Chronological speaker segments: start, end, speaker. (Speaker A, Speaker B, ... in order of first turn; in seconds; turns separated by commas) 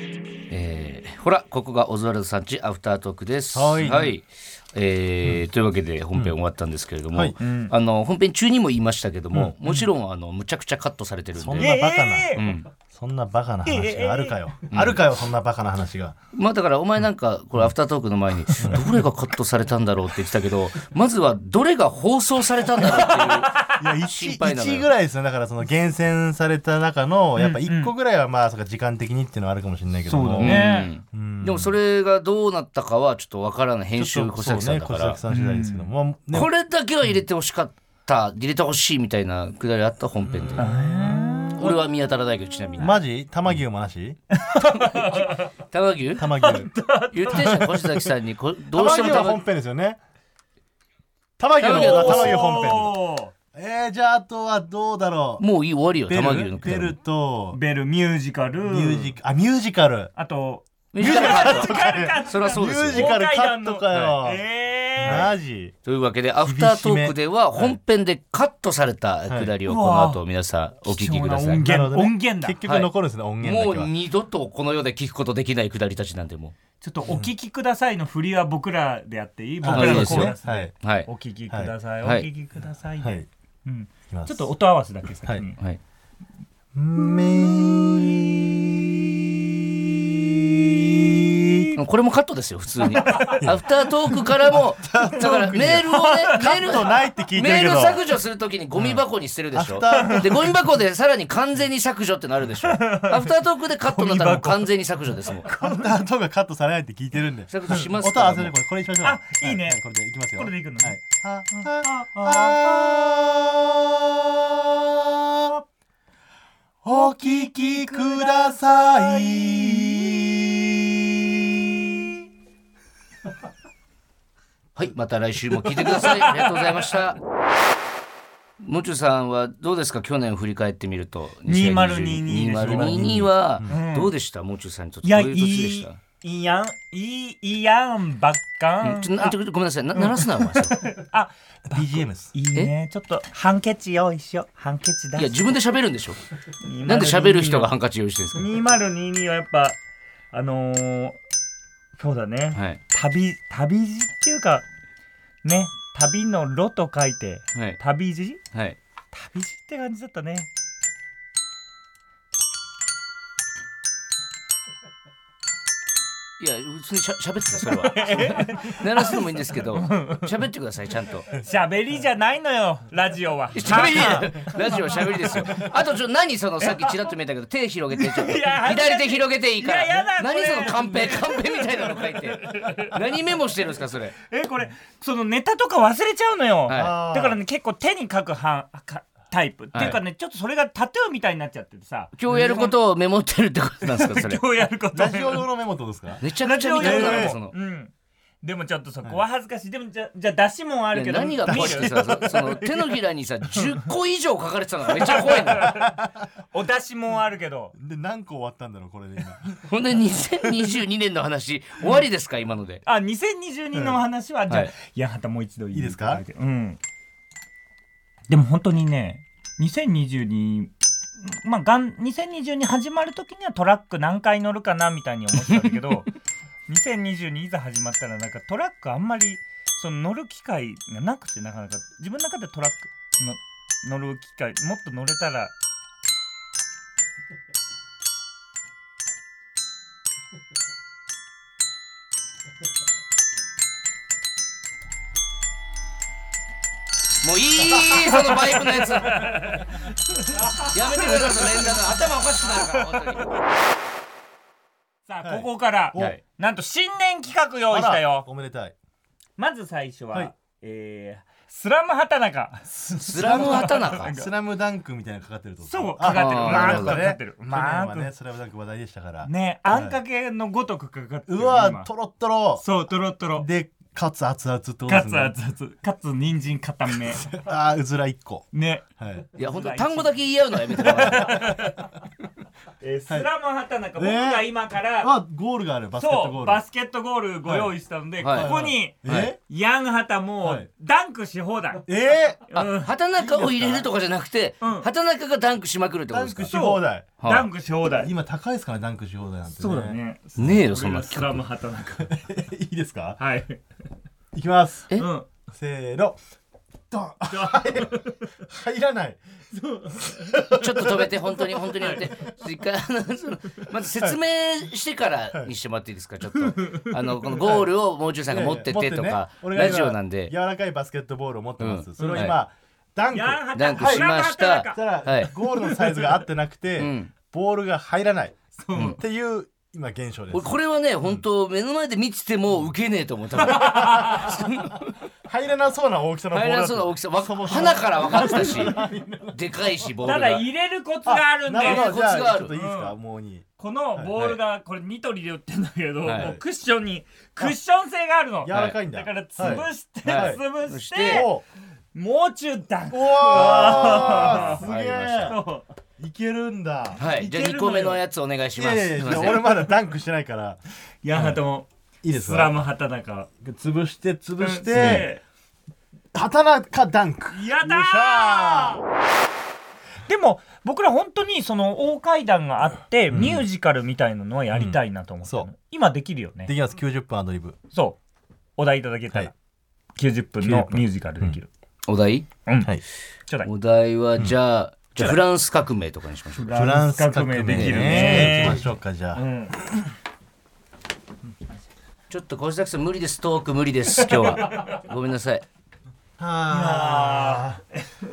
Speaker A: 0.5-11.7, Speaker B: 3.5-4.2, Speaker C: 7.4-7.7, Speaker B: 11.3-16.2, Speaker C: 11.6-12.5, Speaker A: 12.3-12.7, Speaker C: 13.6-14.4, Speaker A: 14.7-15.0, Speaker A: 16.3-24.9, Speaker B: 18.6-18.8, Speaker C: 22.8-23.8, Speaker B: 23.6-31.8, Speaker C: 27.4-27.9, Speaker C: 30.1-30.9, Speaker A: 30.1-35.2, Speaker B: 34.0-36.5, Speaker C: 35.3-35.9, Speaker A: 36.3-40.7, Speaker B: 40.2-41.8, Speaker C: 40.6-41.8, Speaker A: 41.5-43.0, Speaker B: 42.8-44.2, Speaker C: 44.3-45.5, Speaker A: 45.0-46.3, Speaker B: 46.2-46.7, Speaker C: 46.3-47.7, Speaker A: 47.1-49.4, Speaker B: 47.3-48.1, Speaker B: 48.7-50.0, Speaker B: 51.4-53.0, Speaker A: 51.6-52.6, Speaker C: 51.6-53.3, Speaker B: 53.5-55.5, Speaker A: 55.4-57.0, Speaker B: 56.1-57.6, Speaker C: 57.5-59.2, Speaker B: 58.6-60.1, Speaker C: 60.2-65.3, Speaker A: 60.9-63.2, Speaker B: 61.0-64.4, Speaker A: 63.9-64.2, Speaker B: 65.0-65.7, Speaker A: 65.0-71.7, Speaker B: 66.4-67.8, Speaker C: 69.6-70.2, Speaker C: 70.8-72.6, Speaker B: 71.6-73.9, Speaker A: 72.6-72.9, Speaker A: 73.4-76.6, Speaker C: 76.8-85.6, Speaker B: 77.0-77.3, Speaker B: 79.6-80.7, Speaker A: 79.7-81.1, Speaker A: 82.0-82.3, Speaker B: 83.0-83.3, Speaker B: 84.1-84.5, Speaker B: 86.8-91.8, Speaker C: 87.0-88.1, Speaker A: 91.8-105.5, Speaker C: 92.9-93.5, Speaker B: 93.1-98.0, Speaker C: 95.8-97.0, Speaker B: 99.5-100.6, Speaker C: 99.9-100.4, Speaker C: 102.6-104.7, Speaker C: 105.2-106.0, Speaker B: 105.6-115.6, Speaker A: 107.5-108.5, Speaker C: 109.0-112.6, Speaker B: 116.8-121.8, Speaker C: 116.9-120.2, Speaker A: 124.8-127.2, Speaker C: 125.7-126.8, Speaker A: 128.6-136.0, Speaker C: 131.4-134.1, Speaker B: 132.6-133.8, Speaker C: 135.0-139.3, Speaker A: 138.8-140.8, Speaker C: 139.9-145.6, Speaker B: 141.7-142.3, Speaker A: 145.1-146.2, Speaker C: 146.6-147.7, Speaker A: 146.8-148.5, Speaker C: 148.3-149.8, Speaker C: 150.3-151.2, Speaker C: 152.0-154.6, Speaker A: 152.5-152.8, Speaker C: 155.4-158.4, Speaker A: 157.5-157.8, Speaker C: 159.1-160.5, Speaker A: 166.4-171.3, Speaker C: 167.7-170.3, Speaker C: 171.3-175.6, Speaker A: 173.5-184.2, Speaker B: 173.9-174.3, Speaker C: 177.9-183.2, Speaker C: 184.2-192.7, Speaker A: 186.7-187.0, Speaker B: 186.7-187.4, Speaker A: 189.7-190.0, Speaker B: 189.7-190.0, Speaker A: 192.2-194.4, Speaker C: 193.8-195.5, Speaker B: 194.9-196.2, Speaker A: 196.2-197.6, Speaker C: 196.4-202.7, Speaker B: 196.8-197.4, Speaker A: 200.9-205.7, Speaker B: 201.4-202.7, Speaker C: 204.9-206.0, Speaker B: 205.4-206.1, Speaker C: 206.5-207.7, Speaker B: 207.7-209.6, Speaker A: 209.7-212.8, Speaker C: 212.8-216.8, Speaker B: 213.7-214.0, Speaker A: 214.5-214.7, Speaker B: 215.7-216.2, Speaker C: 218.3-226.1, Speaker C: 226.7-235.5, Speaker A: 247.2-249.3, Speaker C: 248.2-252.8, Speaker A: 250.6-253.4, Speaker C: 255.1-258.3, Speaker B: 255.2-256.1, Speaker A: 255.9-256.2, Speaker B: 257.7-258.8, Speaker C: 259.4-264.3, Speaker B: 262.7-270.0, Speaker A: 263.1-264.1, Speaker C: 265.6-268.1, Speaker A: 266.0-267.1, Speaker C: 269.2-271.9, Speaker B: 271.3-272.6, Speaker C: 272.6-273.5, Speaker B: 273.3-275.3, Speaker C: 274.9-277.3, Speaker B: 276.9-278.5, Speaker C: 278.5-281.9, Speaker B: 279.0-279.3, Speaker A: 279.4-281.4, Speaker B: 280.8-281.8, Speaker C: 282.8-285.1, Speaker B: 283.9-286.6, Speaker C: 286.0-291.9, Speaker B: 287.4-287.8, Speaker A: 288.2-289.3, Speaker B: 288.3-289.4, Speaker B: 290.4-290.7, Speaker B: 291.8-292.4, Speaker C: 292.5-292.9, Speaker A: 292.5-296.5, Speaker B: 293.1-293.9, Speaker C: 294.6-294.9, Speaker B: 296.1-297.2, Speaker C: 296.5-298.1, Speaker A: 297.2-297.4, Speaker B: 297.9-300.0, Speaker C: 299.6-302.3, Speaker A: 300.4-301.4, Speaker B: 302.0-303.2, Speaker C: 303.2-303.6, Speaker B: 304.3-304.9, Speaker C: 304.9-305.3, Speaker B: 305.5-306.2, Speaker B: 306.9-309.2, Speaker C: 307.3-308.4, Speaker C: 309.5-310.5, Speaker B: 310.1-311.1, Speaker A: 310.5-320.3, Speaker C: 311.2-312.0, Speaker B: 313.9-314.2, Speaker C: 316.4-317.6, Speaker B: 318.3-331.2, Speaker A: 321.6-322.4, Speaker C: 322.0-322.3, Speaker C: 323.1-326.2, Speaker A: 323.5-325.3, Speaker A: 326.8-327.1, Speaker C: 328.6-329.0, Speaker A: 328.7-329.0, Speaker A: 330.3-334.9, Speaker B: 333.3-340.1, Speaker C: 333.4-334.3, Speaker A: 336.3-338.8, Speaker C: 338.3-338.7, Speaker A: 339.3-340.4, Speaker C: 340.0-341.9, Speaker B: 341.0-344.1, Speaker A: 341.6-342.5, Speaker C: 342.5-342.9, Speaker C: 343.6-351.3, Speaker A: 344.1-344.4, Speaker A: 346.0-346.4, Speaker B: 348.4-350.4, Speaker A: 348.5-348.8, Speaker A: 349.4-351.3, Speaker B: 351.0-351.4, Speaker C: 351.9-355.7, Speaker B: 352.9-355.4, Speaker A: 353.4-355.4, Speaker B: 356.0-357.6, Speaker A: 356.9-359.6, Speaker C: 357.1-358.0, Speaker B: 358.6-360.6, Speaker C: 361.0-363.3, Speaker B: 361.1-361.4, Speaker B: 362.0-362.6, Speaker B: 363.4-365.1, Speaker C: 364.4-365.2, Speaker B: 366.1-368.8, Speaker C: 367.3-368.8, Speaker C: 370.0-376.5, Speaker B: 373.1-373.4, Speaker B: 374.5-375.5, Speaker B: 376.4-377.6, Speaker C: 377.7-378.0, Speaker C: 378.6-379.3, Speaker C: 379.9-381.5, Speaker B: 380.4-381.4, Speaker A: 381.9-382.3, Speaker C: 382.4-382.7, Speaker A: 383.4-386.5, Speaker C: 386.3-389.6, Speaker B: 386.5-389.2, Speaker A: 387.4-388.6, Speaker A: 392.1-395.4, Speaker C: 394.0-394.8, Speaker B: 396.2-397.6, Speaker C: 396.5-398.0